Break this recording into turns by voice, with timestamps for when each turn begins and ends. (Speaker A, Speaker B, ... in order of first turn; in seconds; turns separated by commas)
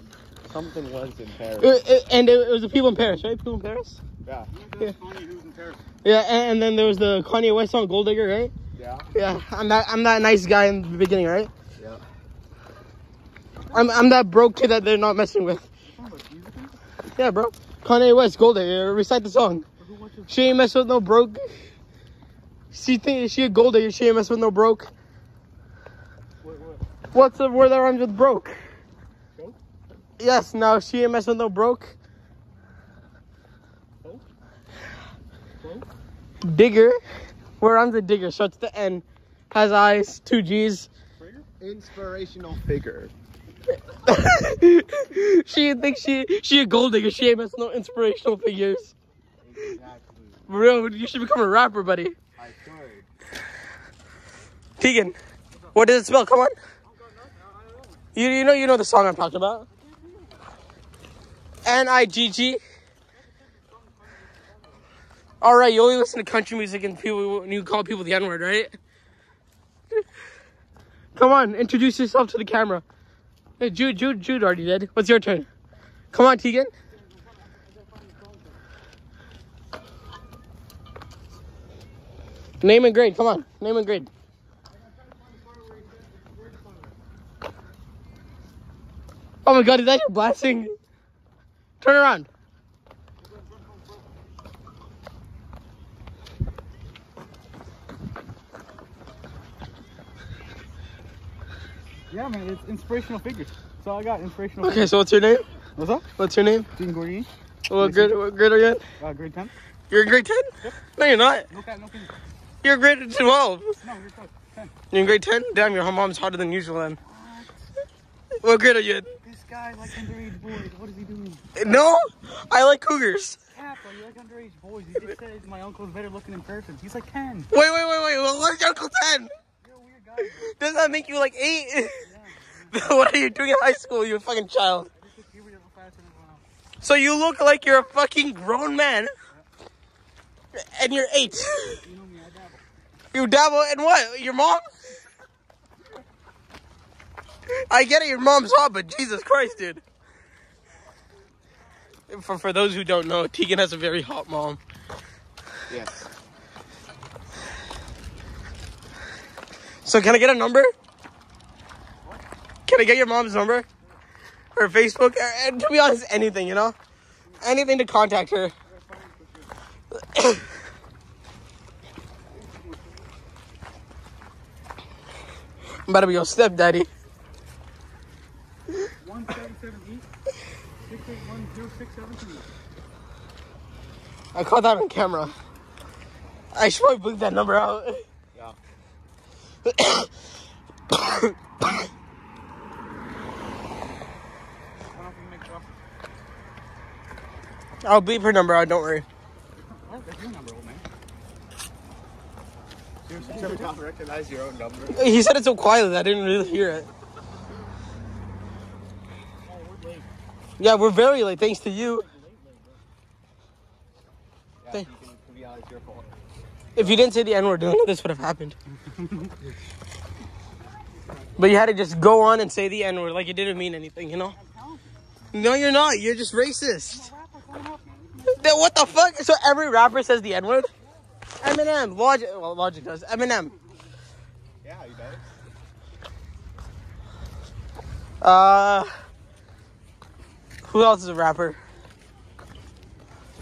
Speaker A: 0.5-1.8, Speaker B: 1.6-4.0, Speaker C: 4.5-5.8, Speaker B: 6.0-8.5, Speaker A: 8.8-9.1, Speaker B: 9.1-11.5, Speaker A: 11.8-12.0, Speaker C: 13.7-14.0, Speaker B: 13.7-15.7, Speaker C: 15.9-16.8, Speaker B: 17.1-19.6, Speaker C: 19.8-20.5, Speaker B: 20.3-21.5, Speaker B: 22.7-24.9, Speaker C: 26.4-26.8, Speaker B: 27.1-28.6, Speaker B: 30.2-31.9, Speaker C: 35.6-35.9, Speaker B: 36.4-37.0, Speaker B: 37.6-40.9, Speaker C: 41.1-41.5, Speaker A: 41.6-43.1, Speaker B: 44.0-48.9, Speaker A: 49.4-50.4, Speaker B: 50.5-52.1, Speaker A: 52.4-53.1, Speaker B: 54.8-55.2, Speaker C: 55.5-55.9, Speaker B: 55.7-56.6, Speaker C: 56.9-58.0, Speaker B: 58.1-59.7, Speaker C: 59.7-60.4, Speaker B: 61.6-62.6, Speaker C: 63.1-64.9, Speaker B: 65.4-68.8, Speaker B: 71.1-72.8, Speaker B: 73.6-75.5, Speaker B: 76.1-76.7, Speaker C: 76.9-78.6, Speaker B: 82.6-84.1, Speaker C: 84.7-87.0, Speaker B: 89.4-90.8, Speaker B: 91.8-92.3, Speaker C: 93.2-94.1, Speaker C: 102.1-104.9, Speaker B: 104.6-105.5, Speaker C: 105.8-106.1, Speaker B: 106.2-106.7, Speaker C: 106.7-108.1, Speaker B: 107.7-108.8, Speaker C: 109.0-109.5, Speaker B: 109.9-111.5, Speaker C: 111.5-112.1, Speaker B: 112.6-113.8, Speaker C: 113.8-114.8, Speaker B: 114.9-117.0, Speaker C: 117.0-117.6, Speaker B: 118.4-119.1, Speaker C: 119.2-121.5, Speaker B: 121.6-123.4, Speaker C: 123.5-127.5, Speaker B: 127.5-129.3, Speaker C: 129.6-130.6, Speaker B: 130.5-132.1, Speaker C: 132.0-132.9, Speaker B: 132.7-134.9, Speaker C: 134.9-136.4, Speaker B: 136.8-139.1, Speaker B: 140.5-141.8, Speaker C: 141.8-142.6, Speaker B: 143.1-144.9, Speaker B: 147.5-149.8, Speaker B: 152.1-154.6, Speaker A: 155.7-156.1, Speaker B: 159.8-160.7, Speaker B: 162.7-163.7, Speaker B: 164.6-166.8, Speaker B: 167.4-168.5, Speaker C: 168.6-169.5, Speaker B: 170.1-170.4, Speaker C: 172.3-173.0, Speaker B: 175.9-176.9, Speaker C: 179.0-180.1, Speaker C: 180.8-182.5, Speaker B: 184.3-185.3, Speaker B: 186.5-188.1, Speaker B: 189.6-190.1, Speaker B: 190.9-191.8, Speaker C: 194.9-195.8, Speaker B: 197.8-199.1, Speaker C: 199.5-200.8, Speaker C: 203.1-203.8, Speaker A: 203.2-205.1, Speaker B: 204.9-206.9, Speaker C: 209.4-210.1, Speaker B: 210.6-212.1, Speaker C: 211.5-212.8, Speaker A: 214.6-216.2, Speaker B: 216.8-218.6, Speaker C: 218.9-219.3, Speaker C: 221.1-221.3, Speaker B: 221.4-224.4, Speaker C: 224.3-225.0, Speaker B: 225.3-227.1, Speaker C: 226.9-229.0, Speaker B: 228.3-230.7, Speaker B: 231.4-233.5, Speaker A: 234.6-235.2, Speaker B: 238.2-238.9, Speaker B: 240.6-241.6